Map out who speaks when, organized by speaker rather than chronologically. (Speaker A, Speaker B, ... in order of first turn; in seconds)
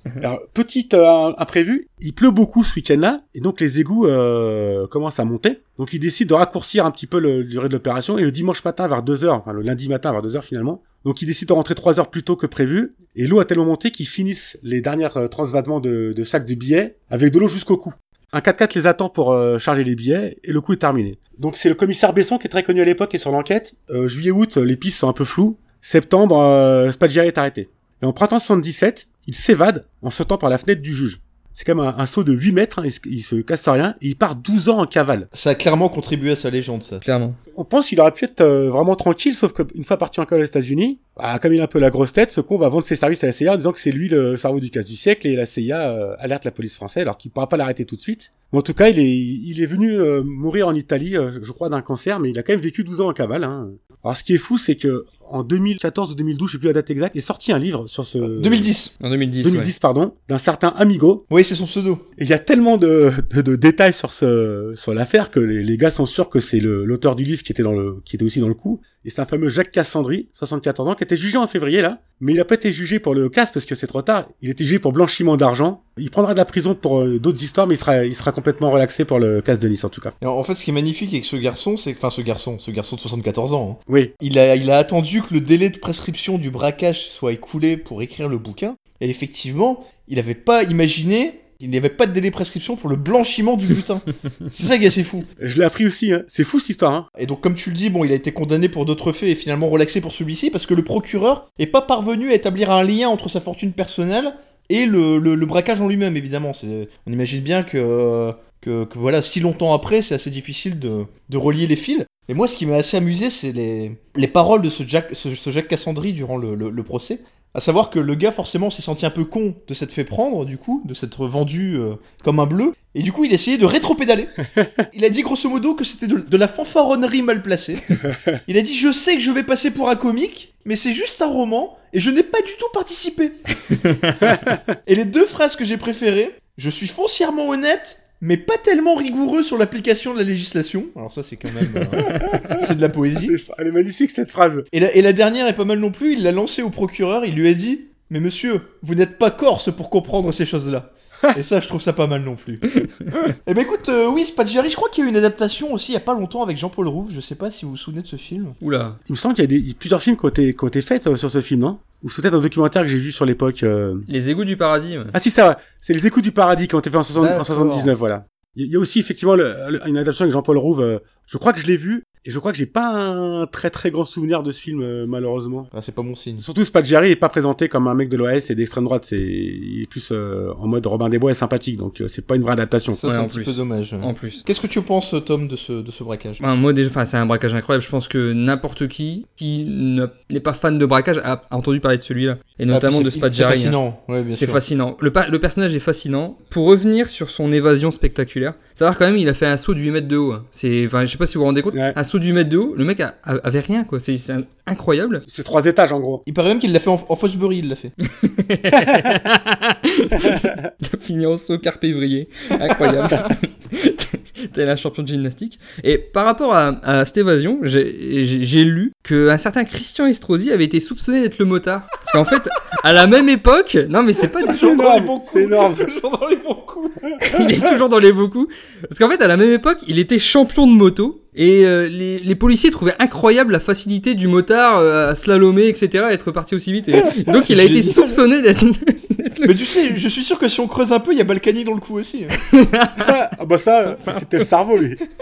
Speaker A: 0.2-35.3, 37.5-58.7, 59.4-61.2, 62.2-80.1, 83.9-84.1, 95.4-97.1, 142.2-144.7, 159.1-164.1, 165.1-175.7, 176.4-183.0, 201.7-202.0, 205.3-206.2, 224.5-225.9, 243.0-245.0
Speaker B: 35.3-37.0, 58.4-58.9, 61.3-62.0, 80.2-95.3, 97.2-124.4, 124.9-143.3, 144.7-158.6, 167.2-167.9, 175.7-176.4, 182.9-186.4, 192.7-194.6, 206.3-207.9, 224.4-227.2, 237.1-238.2, 239.5-242.3
Speaker C: 37.0-37.4, 59.0-59.7, 158.6-159.0, 164.1-165.2, 183.0-184.4, 186.4-193.8, 194.3-205.2, 208.0-224.7, 227.2-239.6, 242.4-243.2, 243.9-244.2